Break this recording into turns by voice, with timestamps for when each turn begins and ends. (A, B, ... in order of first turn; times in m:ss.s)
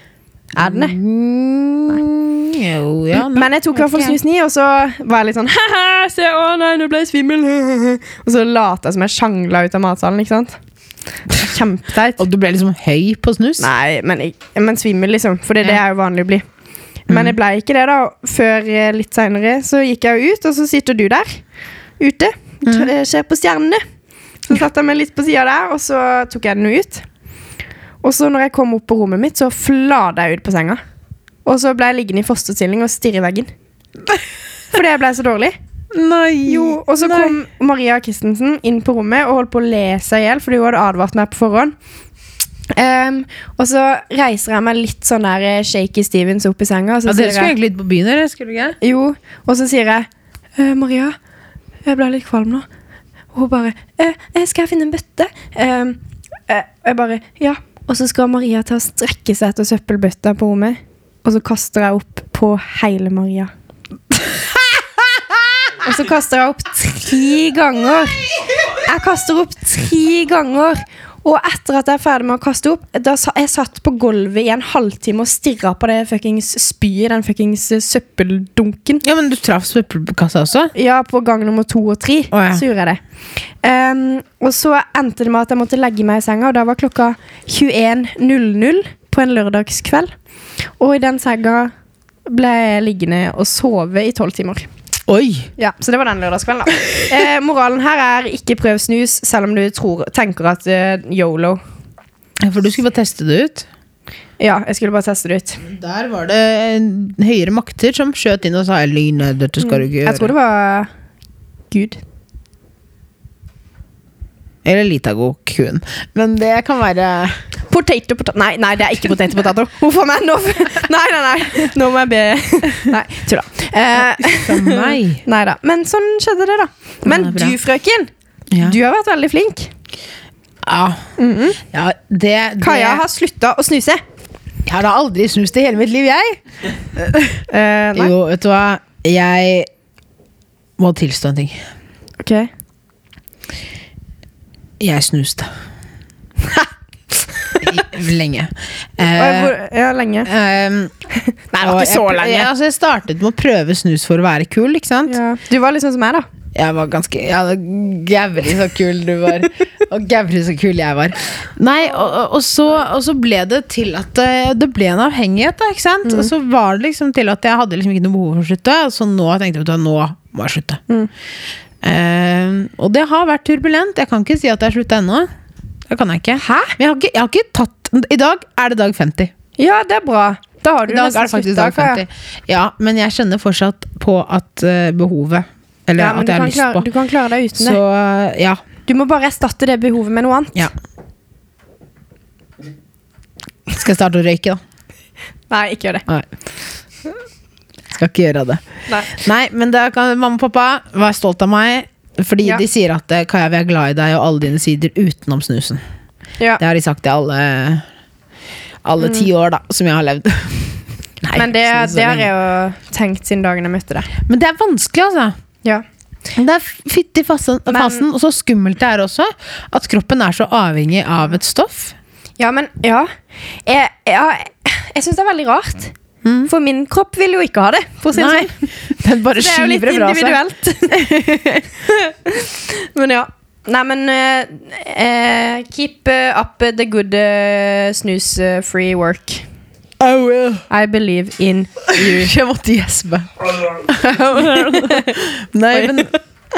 0:00.5-0:01.0 A
0:00.6-0:04.2 B
0:03.1-0:10.6 A
0:11.3-0:12.2 A
0:12.2-0:13.7 B
0:13.6-0:16.4 A
0:17.1-0:21.4 A
0:17.1-0:17.4 B
0:22.0-0:23.8 A
0:22.6-0:22.9 B
0:24.4-0:27.0 A
0:28.0-0:30.8 A
0:31.4-0:33.5 A
0:34.7-0:35.6 A
0:35.9-0:37.3 B
0:36.4-0:41.7 A
0:42.7-0:47.5 A
0:47.1-0:48.8 B
0:48.8-0:51.2 A
0:51.8-0:52.7 A
0:53.3-1:03.5 A
1:04.2-1:05.4 B
1:05.8-1:19.0 A
1:19.0-1:20.7 B
1:20.7-1:23.0 A
1:22.3-1:22.6 B
1:23.6-1:30.1 A
1:30.8-1:31.7 A
1:32.3-1:34.7 A
1:35.1-1:35.5 B
1:35.6-1:41.6 A
1:42.4-1:43.6 B
1:44.4-1:45.6 A
1:45.6-1:50.3 B
1:49.6-1:50.9 A
1:51.7-1:52.0 A
1:54.6-1:57.4 B
1:57.7-2:09.7 A
2:04.1-2:05.2 B
2:07.0-2:07.6 B
2:08.5-2:08.8 B
2:10.6-2:11.0 B
2:11.2-2:11.6 A
2:11.6-2:13.0 B
2:12.6-2:14.0 A
2:14.6-2:16.4 B
2:16.9-2:17.4 B
2:17.5-2:18.1 A
2:17.9-2:19.7 B
2:20.8-2:21.6 B
2:22.2-2:22.5 A
2:24.8-2:25.5 B
2:26.4-2:26.7 A
2:27.3-2:27.6 A
2:27.6-2:29.6 B
2:29.1-2:30.3 A
2:30.2-2:30.9 B
2:31.2-2:32.5 A
2:31.6-2:35.2 B
2:35.0-2:36.3 A
2:36.5-2:50.8 B
2:46.0-2:46.3 A
2:51.8-2:55.3 B
2:55.9-2:59.3 B
2:56.4-2:56.8 A
2:59.6-3:02.0 A
3:00.9-3:06.9 B
3:06.0-3:07.8 A
3:07.6-3:08.6 B
3:08.8-3:10.7 A
3:13.7-3:14.6 B
3:15.5-3:16.0 A
3:17.9-3:25.8 B
3:18.9-3:19.1 A
3:26.6-3:27.8 B
3:28.8-3:32.3 B
3:31.3-3:34.1 A
3:34.2-3:35.3 B
3:36.3-3:41.9 B
3:37.7-3:38.0 A
3:42.4-3:43.1 A
3:43.6-3:45.9 A
3:46.2-3:46.5 B
3:46.4-3:48.7 A
3:48.0-3:50.4 B
3:49.3-3:59.4 A
4:00.0-4:00.6 B
4:00.7-4:02.3 A
4:01.9-4:06.1 B
4:04.4-4:05.2 A
4:05.7-4:06.2 A